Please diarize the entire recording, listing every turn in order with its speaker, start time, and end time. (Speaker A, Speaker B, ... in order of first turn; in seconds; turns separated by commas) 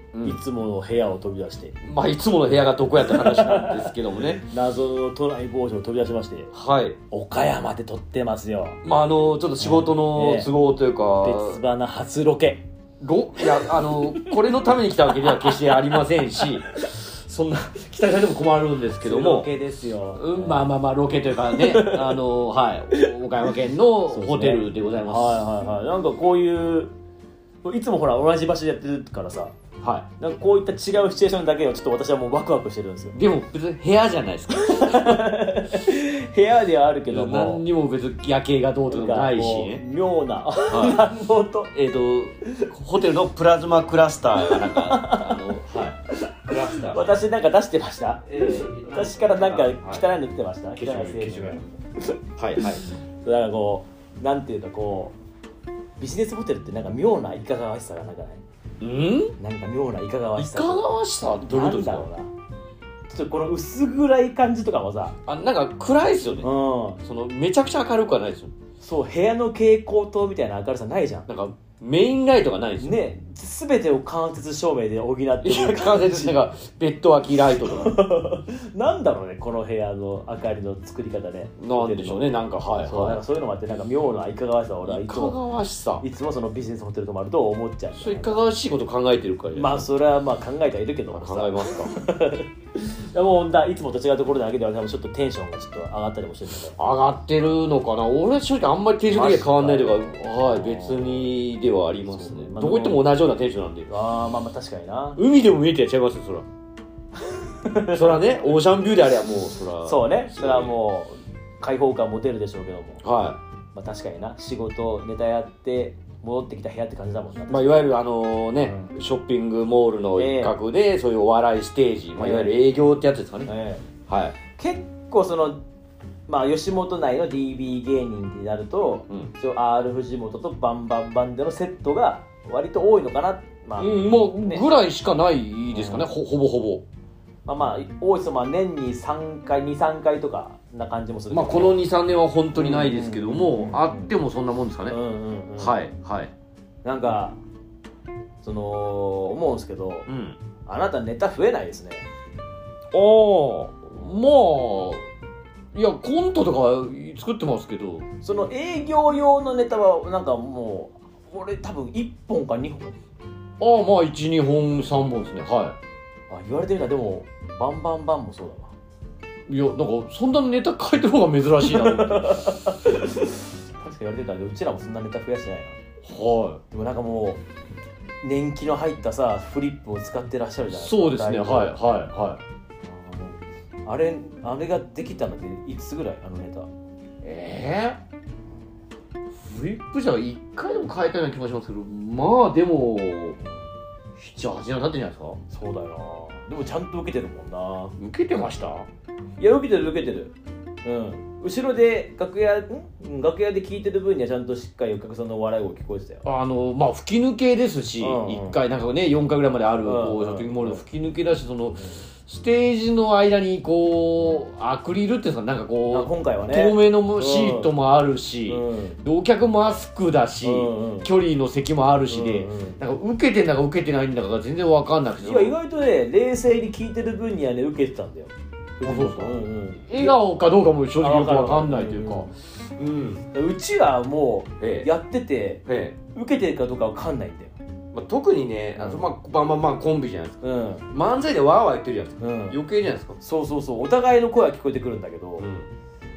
Speaker A: 0.1-0.4, Speaker B: 0.2-1.8, Speaker A: 1.8-4.5, Speaker B: 3.0-6.5, Speaker A: 6.5-7.0, Speaker B: 7.1-8.8, Speaker A: 8.8-11.6, Speaker B: 9.6-10.5, Speaker B: 11.2-12.6, Speaker A: 13.0-19.5, Speaker B: 13.4-16.8, Speaker B: 19.0-20.7, Speaker A: 20.1-25.4, Speaker B: 21.5-22.2, Speaker B: 24.1-26.9, Speaker B: 27.6-29.5, Speaker A: 29.8-30.1, Speaker B: 30.2-33.2, Speaker A: 33.1-35.3, Speaker B: 34.5-37.6, Speaker A: 37.1-39.8, Speaker B: 38.9-41.7, Speaker A: 40.7-41.0, Speaker A: 41.7-47.2, Speaker B: 44.4-52.7, Speaker A: 48.3-50.0, Speaker A: 50.7-51.6, Speaker A: 52.4-52.8, Speaker B: 53.2-55.1, Speaker B: 56.0-58.4, Speaker A: 58.8-59.3, Speaker B: 59.4-60.9, Speaker A: 60.4-62.1, Speaker B: 61.4-62.3, Speaker B: 63.1-65.2, Speaker A: 65.2-66.5, Speaker B: 66.4-67.0, Speaker A: 67.0-68.5, Speaker B: 68.8-71.3, Speaker A: 71.3-72.9, Speaker B: 72.8-76.4, Speaker A: 75.4-78.0, Speaker B: 77.6-82.3, Speaker A: 81.6-83.2, Speaker B: 82.8-85.4, Speaker A: 84.8-86.0, Speaker B: 86.0-88.4, Speaker A: 87.9-89.9, Speaker B: 89.5-96.8, Speaker A: 91.1-91.9, Speaker A: 96.8-103.9, Speaker B: 99.1-101.3, Speaker B: 102.1-103.0, Speaker B: 103.9-105.2, Speaker A: 105.2-106.5, Speaker B: 107.4-108.2, Speaker A: 107.9-110.8, Speaker B: 109.8-113.0, Speaker A: 113.0-113.4, Speaker B: 113.7-117.8, Speaker A: 117.5-123.5, Speaker B: 118.6-118.9, Speaker B: 120.2-120.5, Speaker B: 122.2-122.5, Speaker B: 123.5-123.8, Speaker A: 124.1-124.3, Speaker B: 124.5-125.6, Speaker B: 126.3-134.6, Speaker A: 133.8-136.8, Speaker B: 135.7-136.1, Speaker B: 137.4-141.8, Speaker A: 141.3-145.0, Speaker B: 142.5-144.1, Speaker B: 144.9-145.8, Speaker A: 145.6-146.3, Speaker B: 146.8-147.4, Speaker B: 148.4-150.1, Speaker A: 150.1-150.4, Speaker B: 150.7-152.1, Speaker A: 152.9-155.1, Speaker A: 155.7-158.0, Speaker B: 158.2-163.0, Speaker A: 163.6-165.8, Speaker B: 166.3-168.7, Speaker A: 169.5-172.6, Speaker B: 171.6-175.8, Speaker A: 176.0-176.6, Speaker B: 176.7-177.4, Speaker B: 178.2-181.7, Speaker A: 180.7-182.4, Speaker B: 182.8-186.7, Speaker A: 187.2-188.0, Speaker A: 189.5-193.4, Speaker A: 194.2-195.4, Speaker B: 195.5-197.9, Speaker A: 198.0-198.9, Speaker B: 199.4-200.3, Speaker B: 200.8-206.2, Speaker A: 206.2-225.5, Speaker B: 208.0-208.6, Speaker B: 209.8-210.8, Speaker B: 215.9-217.7, Speaker B: 218.5-219.0, Speaker B: 220.4-221.1, Speaker B: 222.1-222.8, Speaker B: 225.2-230.2, Speaker A: 228.8-233.2, Speaker B: 231.0-232.3, Speaker B: 233.3-237.5, Speaker A: 234.6-234.9, Speaker A: 235.7-236.0, Speaker A: 237.9-243.2, Speaker B: 238.8-239.0, Speaker B: 240.4-240.8, Speaker B: 242.2-242.6, Speaker B: 243.2-245.5, Speaker A: 245.4-245.7